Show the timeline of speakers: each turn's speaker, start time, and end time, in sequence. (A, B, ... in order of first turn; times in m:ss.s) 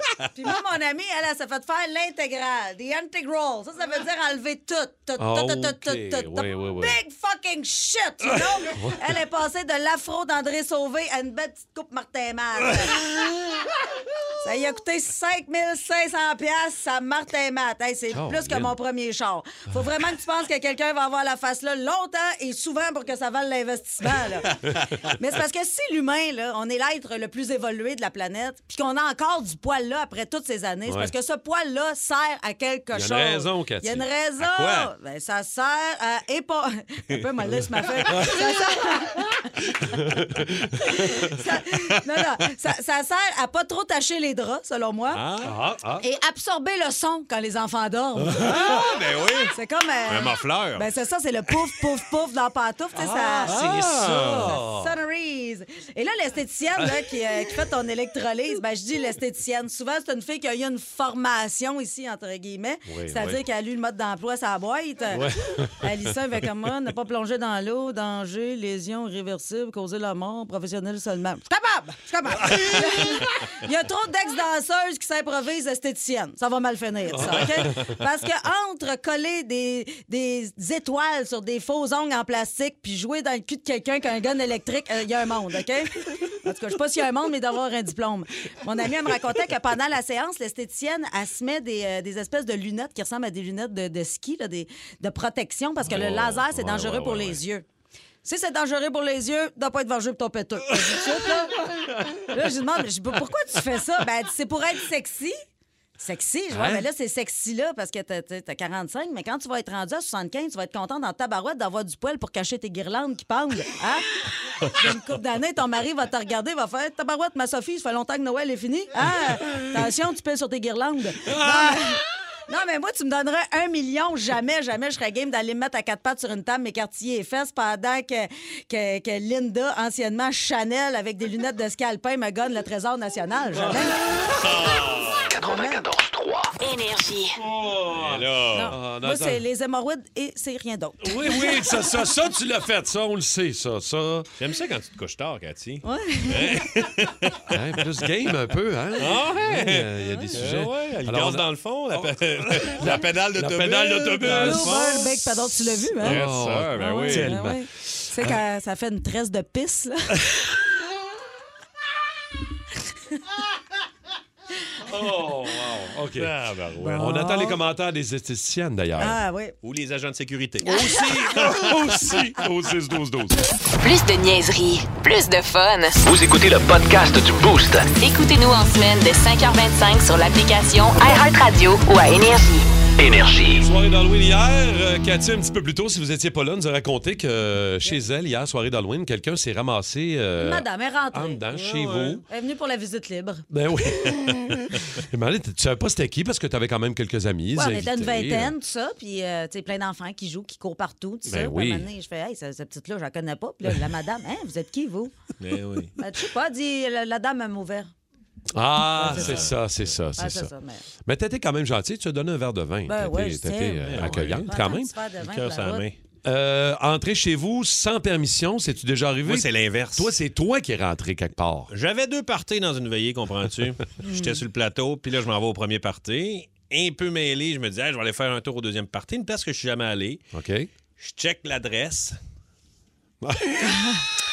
0:00.3-0:13.0 A
0:05.2-0:07.0 B
0:08.3-0:09.0 B
0:14.4-0:24.6 A
0:18.1-0:18.7 B
0:25.2-0:39.4 A
0:30.9-0:31.1 B
0:32.9-0:34.0 B
0:34.5-0:34.8 C
0:38.1-0:38.4 B
0:39.8-0:41.3 B
0:40.9-0:45.2 A
0:45.1-0:45.6 C
0:45.4-0:46.0 B
0:46.0-0:48.5 A
0:48.2-0:48.8 B
0:48.4-0:49.5 C
0:49.5-1:05.3 A
0:50.1-0:50.8 C
0:53.0-0:54.9 B
0:53.4-0:54.6 C
1:02.8-1:03.4 B
1:05.1-1:05.9 B
1:05.8-1:37.6 A
1:12.5-1:12.8 B
1:17.1-1:18.0 B
1:35.8-1:37.4 B
1:38.2-1:41.6 A
1:42.3-1:45.4 A
1:46.0-2:14.0 A
1:46.5-1:46.8 B
2:01.2-2:01.8 B
2:13.6-2:14.5 B
2:14.3-2:15.2 C
2:15.2-2:16.5 D
2:15.4-2:15.8 A
2:16.6-2:17.4 E
2:17.4-2:19.4 B
2:17.9-2:18.7 C
2:18.5-2:21.7 A
2:21.0-2:24.3 B
2:24.4-2:27.6 C
2:25.8-2:26.6 A
2:27.5-2:34.8 B
2:29.0-2:37.3 C
2:34.2-2:36.2 A
2:36.0-2:38.4 B
2:36.8-2:40.2 A
2:44.8-2:49.2 B
2:46.2-2:47.1 C
2:46.8-2:47.6 A
2:49.0-2:49.5 A
2:49.6-2:51.8 C
2:50.6-2:51.0 A
2:50.7-2:53.4 B
2:53.8-2:56.0 E
2:56.0-2:57.9 D
2:58.0-3:02.7 E
3:03.0-3:03.7 D
3:03.6-3:12.2 B
3:10.4-3:11.4 A
3:11.5-3:12.2 C
3:12.3-3:13.4 A
3:13.5-3:18.5 B
3:17.5-3:25.1 A
3:21.2-3:21.9 B
3:25.4-3:25.9 C
3:26.0-3:27.9 A
3:28.5-3:30.5 B
3:29.0-3:29.6 A
3:29.0-3:29.6 C
3:30.2-3:30.8 A
3:31.0-3:34.9 B
3:32.9-3:35.8 A
3:33.8-3:34.5 C
3:35.2-3:36.0 C
3:36.2-3:41.7 B
3:39.2-3:40.1 C
3:41.7-3:50.2 C
3:44.0-3:44.4 A
3:50.3-3:50.7 B
3:51.0-3:52.2 C
3:53.2-3:53.8 B
3:53.7-3:54.0 A